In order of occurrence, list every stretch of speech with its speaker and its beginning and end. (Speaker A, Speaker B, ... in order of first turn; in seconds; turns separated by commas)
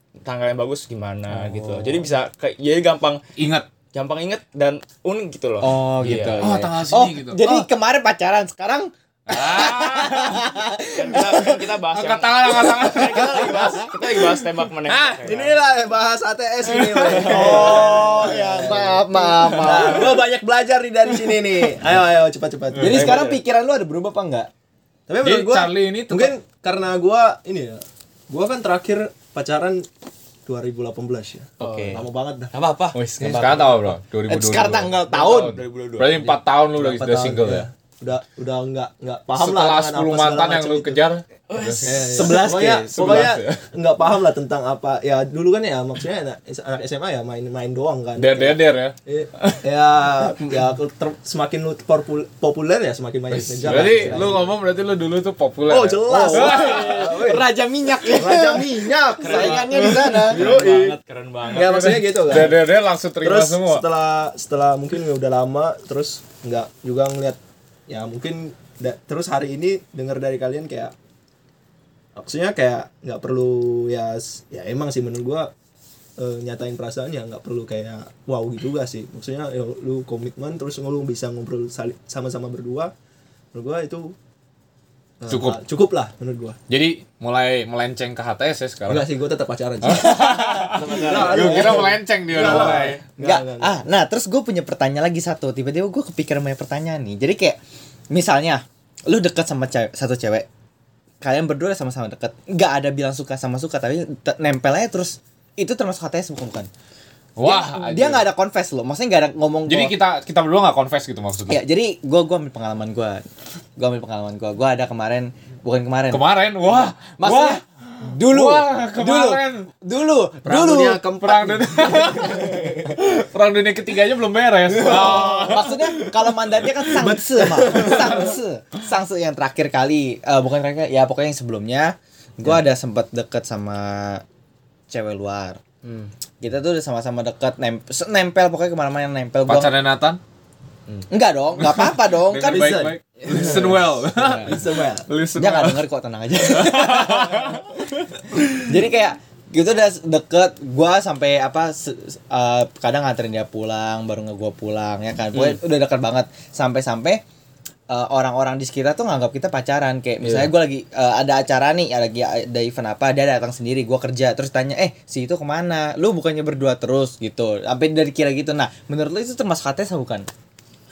Speaker A: 0.2-3.2, Speaker B: 1.3-2.1, Speaker C: 3.4-3.7, Speaker A: 3.9-6.5, Speaker B: 5.6-11.6, Speaker C: 6.0-7.7, Speaker C: 9.3-10.5, Speaker A: 10.9-15.6, Speaker C: 11.9-13.9, Speaker B: 12.7-13.9, Speaker C: 14.8-15.4, Speaker D: 15.2-23.1, Speaker C: 16.7-17.4, Speaker A: 17.1-18.7, Speaker B: 17.2-20.2, Speaker C: 19.5-19.9, Speaker B: 22.8-24.5, Speaker A: 22.8-23.4, Speaker D: 25.1-29.9, Speaker C: 25.2-26.3, Speaker D: 30.5-32.5, Speaker B: 31.6-32.0, Speaker A: 31.6-33.4, Speaker C: 33.0-37.7, Speaker B: 33.1-35.6, Speaker D: 33.3-33.6, Speaker A: 35.1-36.4, Speaker D: 36.8-41.0, Speaker C: 39.4-43.6, Speaker A: 41.5-42.9, Speaker D: 41.9-54.5, Speaker B: 42.1-43.0, Speaker C: 48.2-49.0, Speaker C: 53.3-57.1, Speaker D: 55.7-57.5, Speaker B: 56.1-60.6, Speaker D: 58.1-60.9, Speaker A: 59.2-62.5, Speaker C: 60.3-60.9, Speaker C: 61.5-63.9, Speaker D: 61.5-62.6, Speaker D: 63.2-70.9, Speaker D: 72.2-75.5, Speaker D: 76.2-82.9, Speaker D: 83.5-84.2, Speaker D: 85.2-86.6, Speaker C: 85.3-85.6, Speaker C: 86.7-89.1, Speaker D: 88.9-93.8, Speaker C: 89.8-93.0, Speaker A: 90.6-91.8, Speaker B: 92.4-97.6, Speaker B: 98.1-100.5, Speaker B: 101.2-106.7, Speaker C: 107.4-108.3, Speaker B: 107.4-110.0, Speaker C: 109.7-111.6, Speaker B: 111.5-113.2, Speaker B: 113.8-121.0, Speaker C: 116.1-119.7, Speaker D: 120.5-122.8, Speaker C: 121.2-126.0, Speaker D: 124.7-125.7, Speaker B: 124.8-134.2, Speaker D: 126.9-128.4, Speaker B: 134.9-135.6, Speaker A: 135.8-136.1, Speaker B: 136.4-139.7, Speaker C: 139.5-140.2, Speaker B: 141.1-142.9, Speaker C: 141.6-145.8, Speaker D: 142.5-145.1, Speaker B: 144.2-144.5, Speaker B: 145.3-147.7, Speaker C: 146.4-148.7, Speaker B: 148.5-157.2, Speaker B: 157.9-170.3